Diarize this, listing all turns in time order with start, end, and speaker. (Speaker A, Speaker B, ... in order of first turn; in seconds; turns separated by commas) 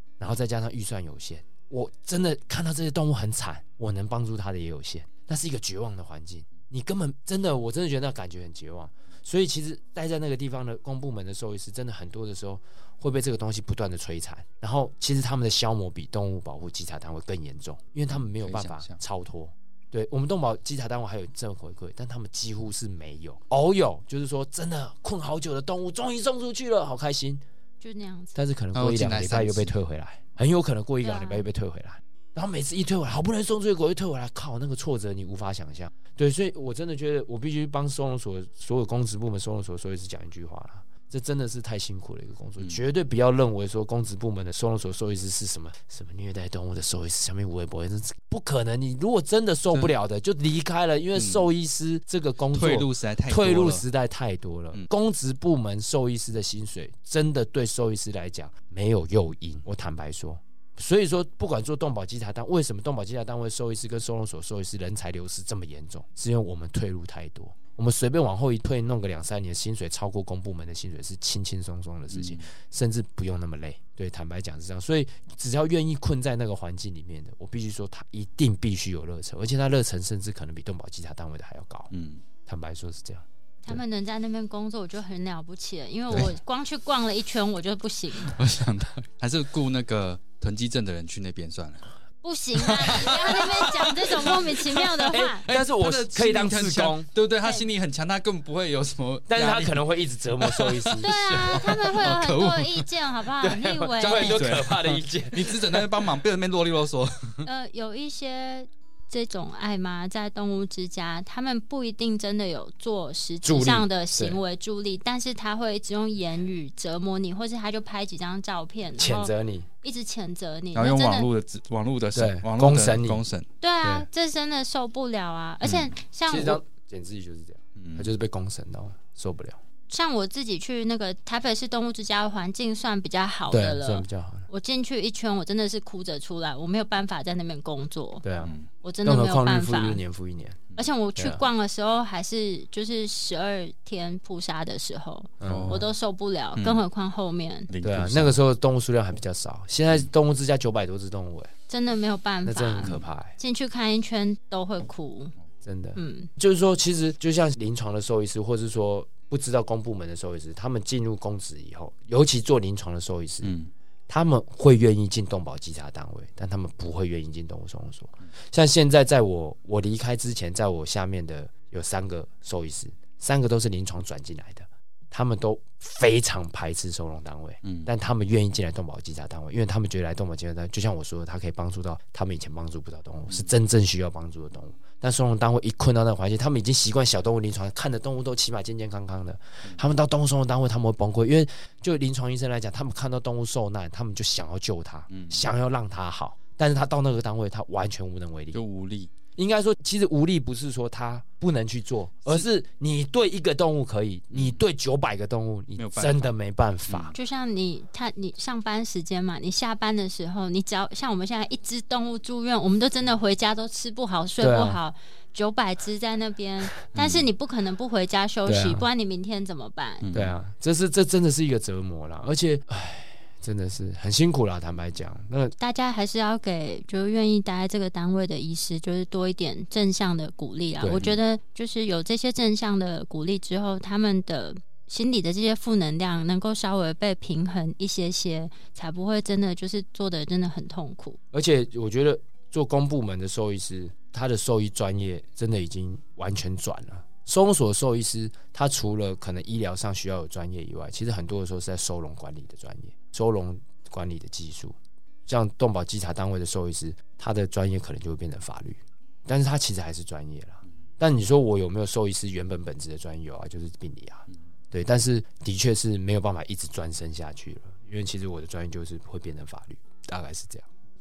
Speaker A: 0.2-27.4, Speaker B: 18.1-19.0, Speaker C: 27.8-28.4, Speaker A: 28.4-81.9, Speaker B: 28.7-29.7, Speaker C: 31.0-31.4, Speaker B: 51.2-51.5, Speaker B: 52.5-53.9, Speaker B: 72.1-72.5, Speaker B: 81.9-82.2, Speaker A: 82.5-83.8, Speaker C: 83.6-88.4, Speaker B: 88.2-91.9, Speaker C: 92.2-95.5, Speaker B: 92.5-102.9, Speaker A: 95.4-97.1, Speaker C: 97.4-97.7, Speaker A: 99.3-101.1, Speaker C: 101.0-104.4, Speaker A: 103.4-105.9, Speaker B: 104.0-107.5, Speaker C: 107.4-119.3, Speaker A: 113.4-114.4, Speaker A: 119.0-119.7, Speaker C: 119.8-121.3, Speaker B: 120.8-123.5, Speaker A: 122.1-123.2, Speaker C: 123.6-126.6, Speaker B: 125.6-125.9, Speaker A: 126.3-129.6, Speaker B: 127.8-128.1, Speaker C: 129.9-138.2, Speaker A: 133.5-134.5, Speaker A: 138.2-138.5, Speaker B: 138.4-138.7, Speaker C: 138.8-140.0, Speaker A: 139.1-141.4, Speaker C: 140.8-147.7, Speaker A: 145.4-145.9, Speaker B: 145.4-145.8, Speaker B: 146.6-146.8, Speaker B: 147.7-148.4, Speaker A: 147.8-151.5, Speaker C: 151.7-155.3, Speaker A: 152.4-153.3, Speaker B: 152.8-153.1, Speaker A: 155.6-163.6, Speaker C: 156.0-156.3, Speaker B: 163.4-163.7, Speaker A: 164.1-198.6, Speaker B: 177.6-177.9, Speaker B: 195.1-195.5, Speaker B: 198.5-199.1, Speaker A: 199.4-207.2, Speaker B: 204.3-204.6, Speaker B: 205.8-206.3, Speaker C: 207.1-220.1, Speaker A: 214.4-214.8, Speaker B: 216.9-217.3, Speaker A: 218.5-218.9, Speaker B: 220.0-220.4, Speaker A: 220.1-225.6, Speaker C: 225.6-241.2, Speaker A: 230.8-231.2, Speaker A: 241.3-270.7